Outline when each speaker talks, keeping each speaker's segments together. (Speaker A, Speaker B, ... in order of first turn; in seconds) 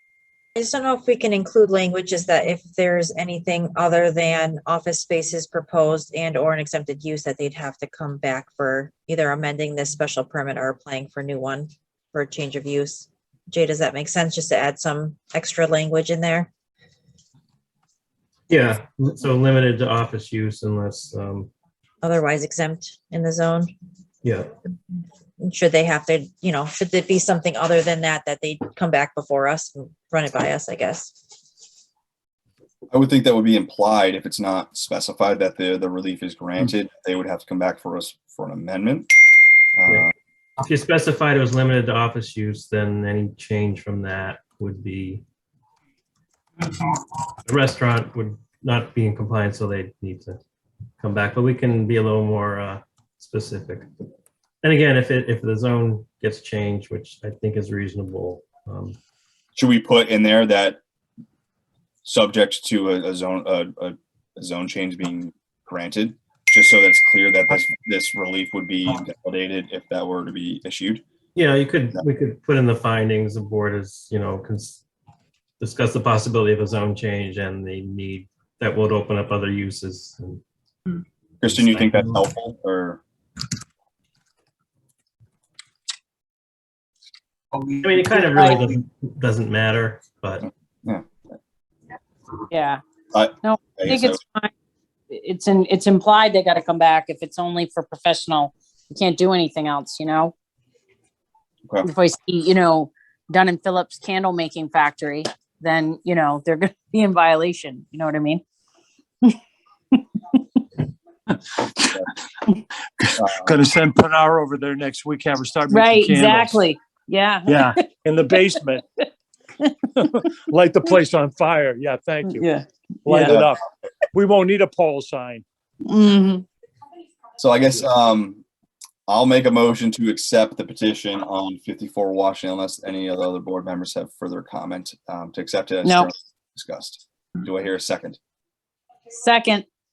Speaker A: 0.6-16.5, 22.0-23.7, 25.4-31.2
Speaker B: 18.5-21.5, 24.2-24.5, 40.6-45.2, 47.5-50.4, 51.0-53.9, 54.6-59.0, 71.3-74.8, 75.6-80.4, 81.5-82.2, 87.8-90.5
Speaker C: 32.9-39.1, 39.8-40.1, 59.6-60.8, 62.0-71.0, 81.4-83.0, 93.1-94.2, 113.2-113.5, 123.2-123.5, 127.4-128.4, 129.1-138.2
Speaker D: 92.5-92.8, 93.4-94.5, 95.1-100.3, 101.8-108.4, 115.7-117.9, 122.2-123.3, 125.8-126.5, 135.8-136.1, 139.1-139.7
Speaker E: 113.0-116.7, 117.5-118.8, 120.0-123.6, 124.1-125.4